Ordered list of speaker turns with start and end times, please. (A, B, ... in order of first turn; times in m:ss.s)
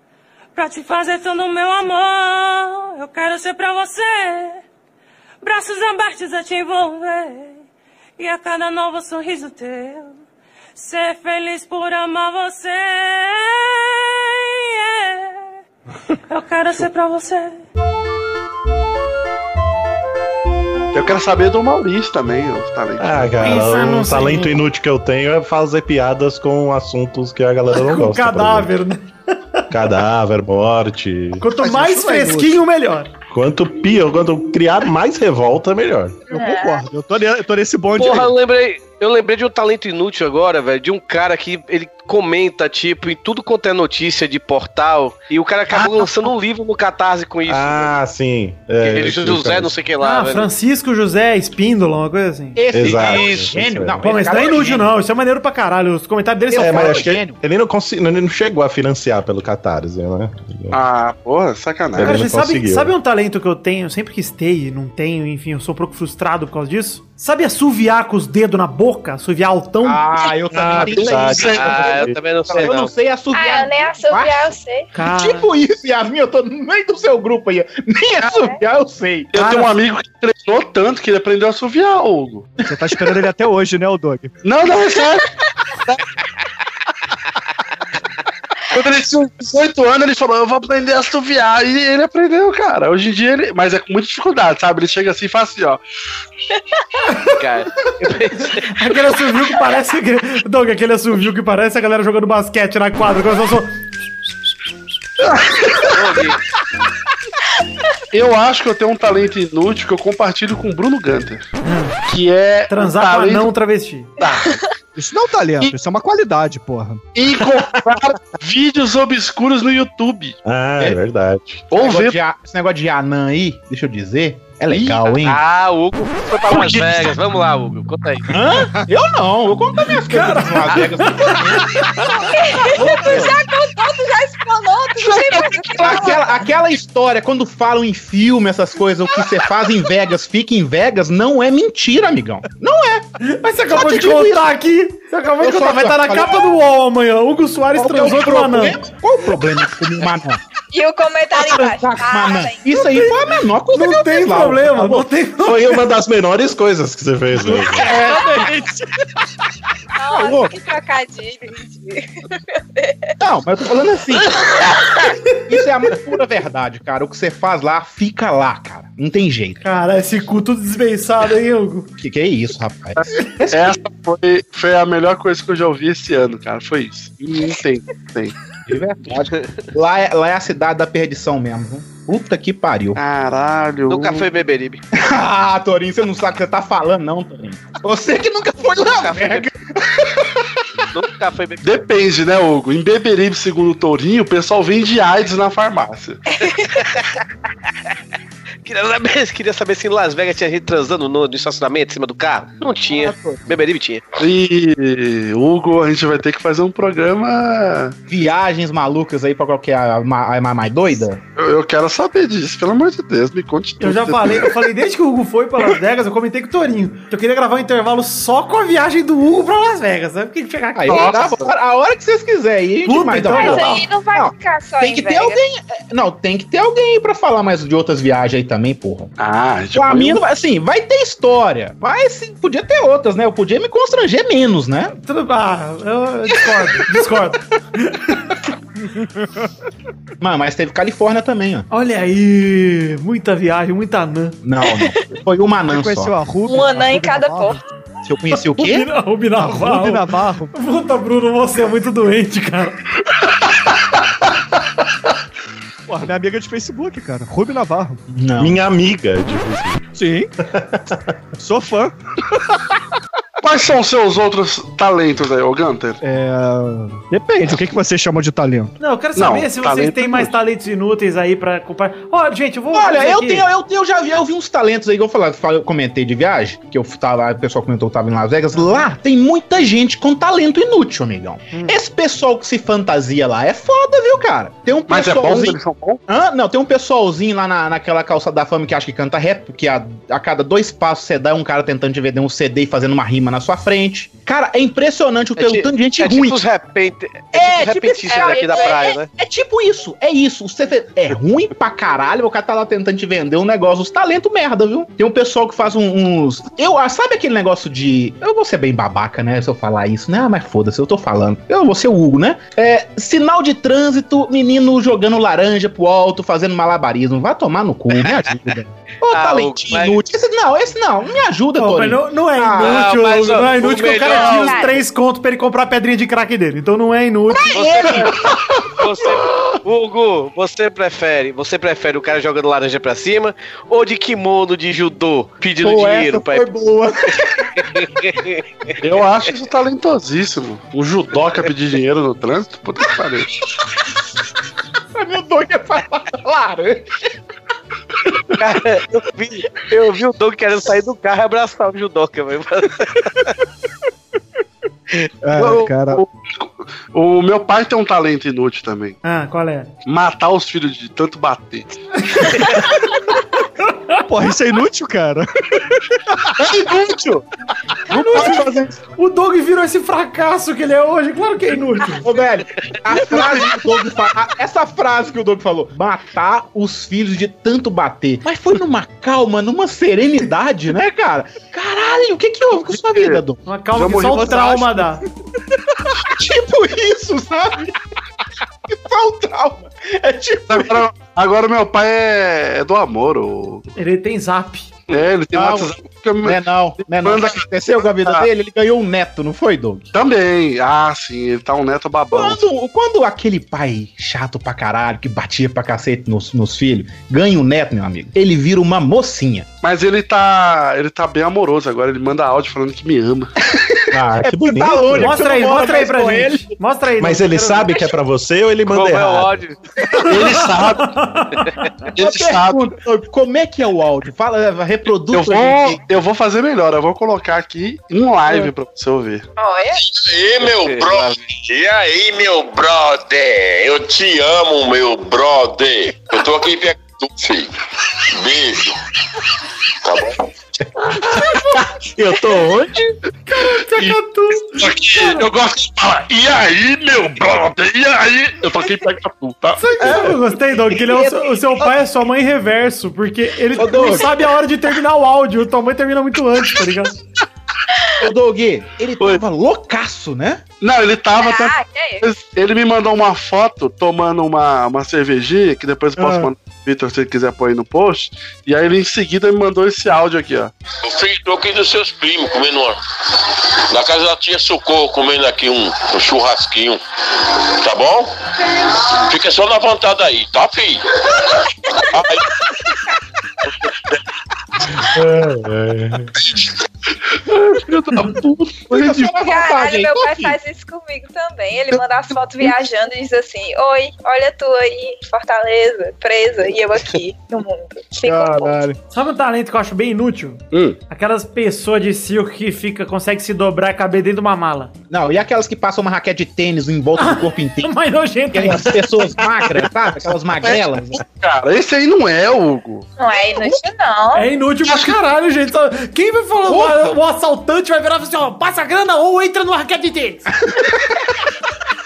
0:00.5-0:04.6 A
0:05.4-0:07.6 A
0:08.2-0:10.2 A
0:10.8-0:15.6 A
0:16.3-0:17.6 A
0:20.9-0:23.5 B
0:23.0-0:28.7 C
0:23.4-0:24.5 D
0:27.7-0:29.0 D
0:29.7-0:31.4 C
0:31.4-0:33.1 D
0:31.5-0:32.6 E
0:33.3-0:36.2 C
0:36.3-0:38.4 E
0:36.3-0:36.8 F
0:37.9-0:47.9 G
0:45.7-0:46.3 C
0:47.5-0:49.7 C
0:48.8-0:50.5 G
0:50.0-0:52.6 D
0:52.6-0:54.9 H
0:52.7-0:54.0 C
0:52.8-0:53.4 G
0:54.0-0:57.1 D
0:56.5-0:57.4 H
0:56.5-1:00.8 C
1:00.7-1:02.2 B
1:01.9-1:02.9 C
1:02.0-1:10.0 D
1:09.8-1:19.3 H
1:10.5-1:12.2 C
1:11.0-1:11.8 B
1:11.4-1:12.9 G
1:13.3-1:14.9 F
1:14.9-1:15.5 D
1:18.2-1:18.6 F
1:19.3-1:22.5 B
1:19.4-1:19.7 D
1:22.6-1:24.3 E
1:24.4-1:25.3 B
1:28.7-1:35.8 B
1:37.1-1:37.3 D
1:37.4-1:38.8 G
1:38.7-1:43.8 D
1:45.3-1:45.8 B
1:45.8-1:46.4 G
1:48.1-1:51.4 B
1:51.6-1:52.0 D
1:52.1-1:53.5 B
1:52.7-1:54.1 D
1:54.2-1:54.5 B
1:54.2-1:54.6 F
1:55.0-1:57.0 E
1:57.1-2:00.4 B
1:57.5-1:57.8 C
2:00.4-2:01.7 C
2:01.7-2:02.2 B
2:01.7-2:05.4 H
2:05.2-2:08.3 G
2:06.5-2:07.1 H
2:08.3-2:13.4 H
2:09.9-2:12.2 D
2:12.3-2:16.3 F
2:12.8-2:13.1 E
2:15.0-2:23.0 H
2:23.2-2:28.8 D
2:23.7-2:24.5 H
2:25.4-2:26.6 H
2:27.8-2:30.4 H
2:30.7-2:32.7 F
2:31.3-2:35.1 H
2:32.8-2:33.2 D
2:33.7-2:35.8 D
2:35.4-2:38.0 C
2:37.4-2:39.0 E
2:37.8-2:38.2 H
2:38.0-2:38.6 F
2:40.0-2:43.1 F
2:40.1-2:40.5 H
2:43.2-2:44.5 H
2:45.4-2:49.6 H
2:49.6-2:51.9 D
2:52.0-2:53.8 H
2:53.5-2:58.3 B
2:58.6-3:03.0 H
3:03.0-3:04.3 B
3:03.9-3:04.8 G
3:04.9-3:10.6 H
3:08.7-3:09.5 G
3:10.9-3:11.8 G
3:11.6-3:16.2 B
3:16.4-3:16.9 F
3:16.8-3:17.1 G
3:18.6-3:24.0 G
3:22.9-3:23.4 H
3:24.2-3:28.0 B
3:28.1-3:31.2 H
3:31.4-3:34.6 B
3:33.8-3:41.3 D
3:40.7-3:49.1 H
3:40.9-3:41.4 B
3:42.8-3:43.8 D
3:43.3-3:45.4 F
3:49.2-3:50.2 B
3:49.7-3:54.9 H
3:54.9-3:58.4 D
4:00.2-4:01.7 H
4:01.7-4:04.4 D
4:04.4-4:06.1 H
4:04.6-4:05.0 F
4:05.7-4:07.6 E
4:06.4-4:07.6 F
4:08.0-4:08.9 H
4:08.3-4:12.8 D
4:09.4-4:10.5 E
4:15.9-4:18.0 E
4:18.1-4:18.6 H
4:18.4-4:19.9 C
4:19.9-4:20.3 E
4:20.4-4:21.1 C
4:21.4-4:21.9 E
4:23.4-4:26.0 B
4:26.0-4:28.7 E
4:28.8-4:33.5 D
4:29.2-4:30.3 B
4:32.7-4:56.4 H
4:38.5-4:38.9 D
4:41.5-4:41.8 D
4:44.9-4:46.0 B
4:55.4-4:59.1 G
4:57.3-5:22.8 H
4:58.1-4:59.0 F
5:19.1-5:20.0 G
5:21.6-5:27.9 D
5:22.6-5:24.7 G
5:24.0-5:24.8 F
5:27.4-5:29.1 H
5:27.5-5:28.1 G
5:28.7-5:36.5 G
5:35.6-5:37.7 H
5:37.6-5:38.7 G
5:38.8-5:43.4 B
5:44.9-5:47.1 H
5:48.3-5:53.3 G
5:55.2-5:56.0 E
5:55.3-5:59.0 B
5:59.0-5:59.7 D
5:59.8-6:01.8 B
6:02.0-6:02.7 D
6:03.6-6:04.0 D
6:04.1-6:06.0 E
6:06.4-6:07.2 B
6:07.9-6:08.7 H
6:07.9-6:08.7 B
6:08.1-6:12.1 D
6:12.0-6:23.4 H
6:13.1-6:13.4 B
6:22.7-6:23.2 B
6:23.4-6:25.0 D
6:23.7-6:24.6 B
6:24.2-6:24.9 E
6:26.0-6:27.8 H
6:28.6-6:30.9 H
6:30.5-6:33.7 B
6:33.8-6:34.7 D
6:34.9-6:37.4 B
6:35.3-6:39.9 H
6:39.9-6:42.4 B
6:42.1-6:49.5 H
6:49.6-6:53.3 B
6:53.4-6:56.5 H
6:53.9-6:55.2 C
6:55.0-6:57.8 D
6:57.0-6:59.4 C
6:58.7-6:59.6 G
7:00.0-7:01.5 D
7:00.0-7:00.9 B
7:02.0-7:02.6 B
7:02.0-7:05.8 H
7:05.1-7:09.2 B
7:09.4-7:09.8 F
7:09.8-7:17.5 I
7:10.4-7:11.2 G
7:18.1-7:18.8 I
7:19.8-7:20.2 I
7:20.9-7:22.8 C
7:23.3-7:25.2 D
7:24.5-7:30.2 B
7:29.6-7:36.9 D
7:29.8-7:30.1 H
7:30.7-7:31.7 H
7:33.6-7:34.1 H
7:38.0-7:40.4 H
7:40.6-7:50.5 B
7:41.2-7:42.1 F
7:46.0-7:46.3 D
7:50.8-7:52.8 I
7:53.7-7:56.8 I
7:57.5-8:01.3 I
8:01.9-8:02.2 I
8:04.7-8:06.1 C
8:07.1-8:09.0 B
8:08.7-8:10.4 H
8:09.1-8:18.6 F
8:18.0-8:18.8 H
8:18.9-8:24.7 D
8:24.9-8:27.8 H
8:27.0-8:28.9 D
8:28.3-8:31.0 H
8:30.4-8:32.9 B
8:33.0-8:34.3 F
8:34.1-8:40.3 D
8:34.6-8:35.0 B
8:36.5-8:36.9 H